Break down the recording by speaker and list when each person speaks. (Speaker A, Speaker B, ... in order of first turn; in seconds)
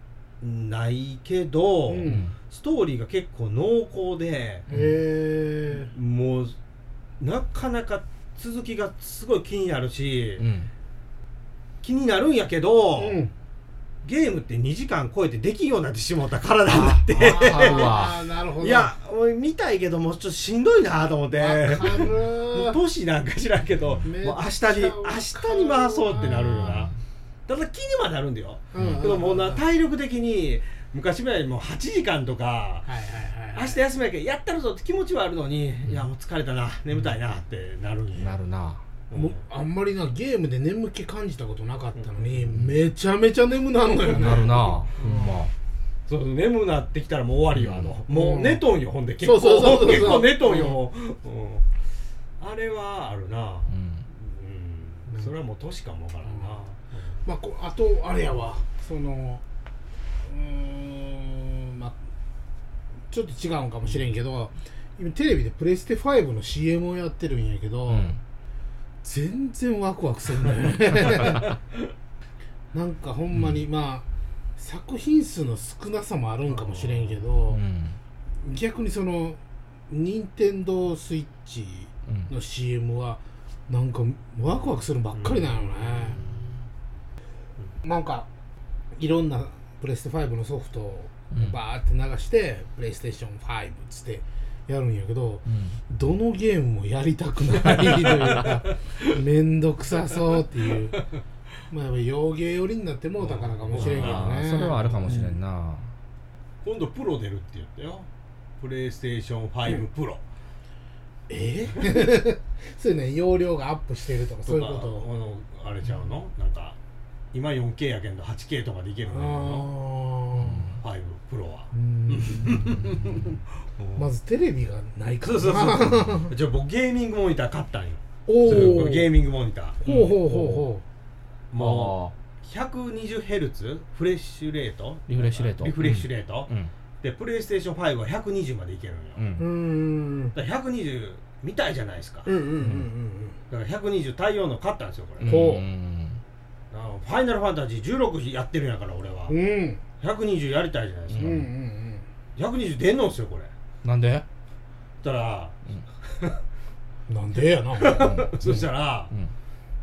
Speaker A: 0.4-4.7, 5.8-6.6, 7.2-10.5, 11.8-13.2, 14.0-26.9, 27.5-32.9, 33.5-38.4, 39.1-39.4, 42.0-42.5, 44.2-45.3, 46.1-51.7, 52.4-57.2, 76.5-77.2, 85.1-86.6, 97.8-99.0, 103.2-105.2, 106.6-110.2, 114.5-116.8, 117.3-119.7, 120.8-124.1, 125.2-129.8, 131.5-139.2, 140.3-142.3, 143.5-145.4, 146.7-149.4, 150.0-151.4, 152.4-153.5, 155.0-156.4, 157.8-159.1
Speaker B: 1.9-2.3, 4.7-5.9, 13.0-13.3, 17.1-18.9, 21.3-22.8, 24.0-26.8, 28.7-29.6, 32.9-33.8, 39.1-45.4, 48.1-48.6, 49.2-50.8, 57.2-59.4, 60.2-62.0, 63.1-68.2, 69.0-71.6, 72.7-74.1, 74.6-77.6, 78.4-86.2, 87.8-88.3, 88.9-101.1, 101.7-105.4, 111.3-115.1, 119.1-120.7, 121.7-123.3, 124.0-126.3, 128.3-129.2, 129.8-130.8, 139.4-140.3, 142.2-143.4, 145.2-145.7, 149.3-149.8, 151.2-152.1, 157.1-158.3
Speaker C: 2.1-2.3, 4.7-5.0, 10.4-10.7, 16.7-18.2, 26.3-26.9, 28.8-29.0, 38.1-38.8, 42.5-42.8, 44.1-45.5, 47.5-48.0, 53.7-54.1, 67.9-68.2, 73.3-73.6, 77.5-78.0, 91.3-91.6, 95.5-95.8, 103.7-105.9, 120.4-120.8, 129.8-130.7, 131.6-132.1, 135.1-136.7, 139.2-139.5, 142.6-142.9, 145.2-146.2, 151.1-151.5, 153.8-154.2, 158.0-159.3